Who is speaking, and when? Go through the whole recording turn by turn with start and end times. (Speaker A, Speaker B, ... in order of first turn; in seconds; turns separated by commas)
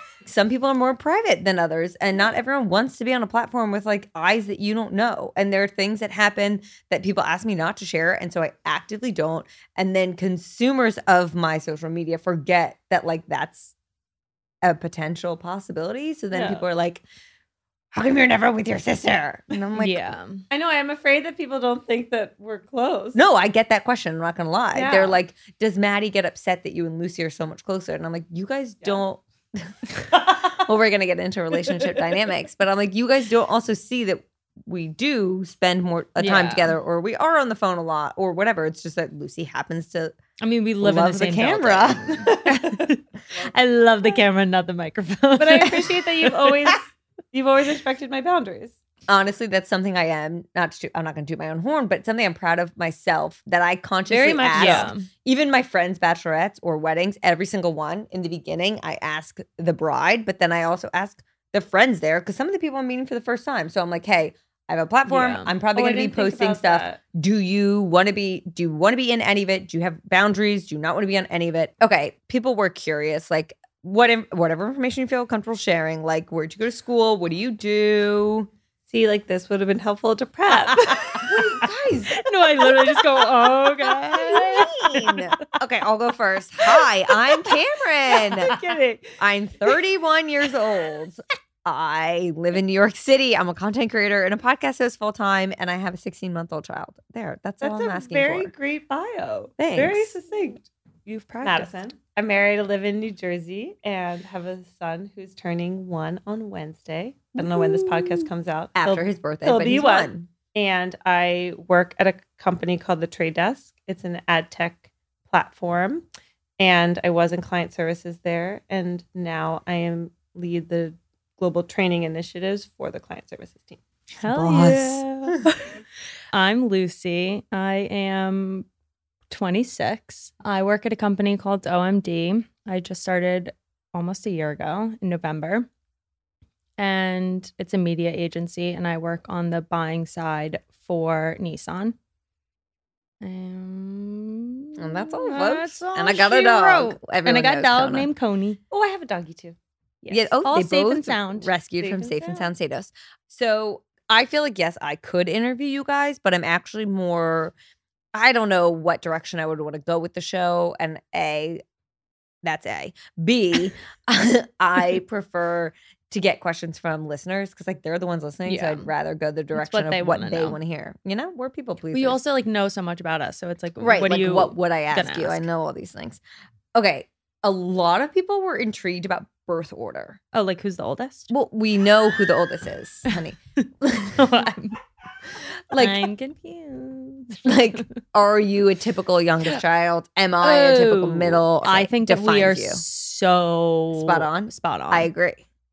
Speaker A: 0.2-13.7, Speaker A: 14.6-17.0, Speaker B: 16.3-16.6, Speaker A: 17.9-20.1, Speaker C: 19.8-20.4, Speaker B: 20.5-23.2, Speaker A: 23.1-40.2, Speaker B: 24.7-25.2, Speaker C: 36.2-36.7, Speaker C: 40.4-45.8, Speaker A: 40.8-42.5, Speaker B: 45.4-48.8, Speaker A: 49.1-78.5, Speaker C: 54.1-55.1, Speaker B: 54.4-54.9, Speaker C: 65.1-65.5, Speaker B: 65.7-67.0, Speaker B: 78.9-81.6, Speaker A: 81.2-82.2, Speaker C: 82.2-84.7, Speaker A: 84.0-88.5, Speaker B: 88.2-89.2, Speaker A: 89.2-98.5, Speaker B: 97.6-100.7, Speaker A: 99.6-100.2, Speaker C: 101.1-101.7, Speaker B: 101.4-116.1, Speaker A: 107.4-108.1, Speaker A: 108.8-110.3, Speaker B: 116.6-123.8, Speaker C: 124.2-125.6, Speaker A: 124.2-125.4, Speaker C: 126.3-128.7, Speaker C: 129.3-135.7, Speaker C: 136.8-141.9, Speaker C: 143.2-148.6, Speaker A: 144.8-148.1, Speaker B: 148.7-149.6, Speaker C: 150.0-151.5, Speaker A: 150.1-157.5, Speaker B: 151.8-152.5, Speaker A: 158.1-161.6, Speaker A: 162.4-172.2, Speaker C: 168.5-168.9, Speaker C: 169.5-170.6, Speaker C: 171.9-175.4, Speaker A: 173.8-176.2, Speaker A: 176.7-180.2, Speaker C: 180.3-181.3, Speaker A: 181.3-184.2, Speaker C: 183.6-184.8, Speaker A: 185.7-186.1, Speaker C: 185.7-187.4, Speaker A: 187.4-192.8, Speaker C: 190.4-195.1, Speaker A: 193.9-195.4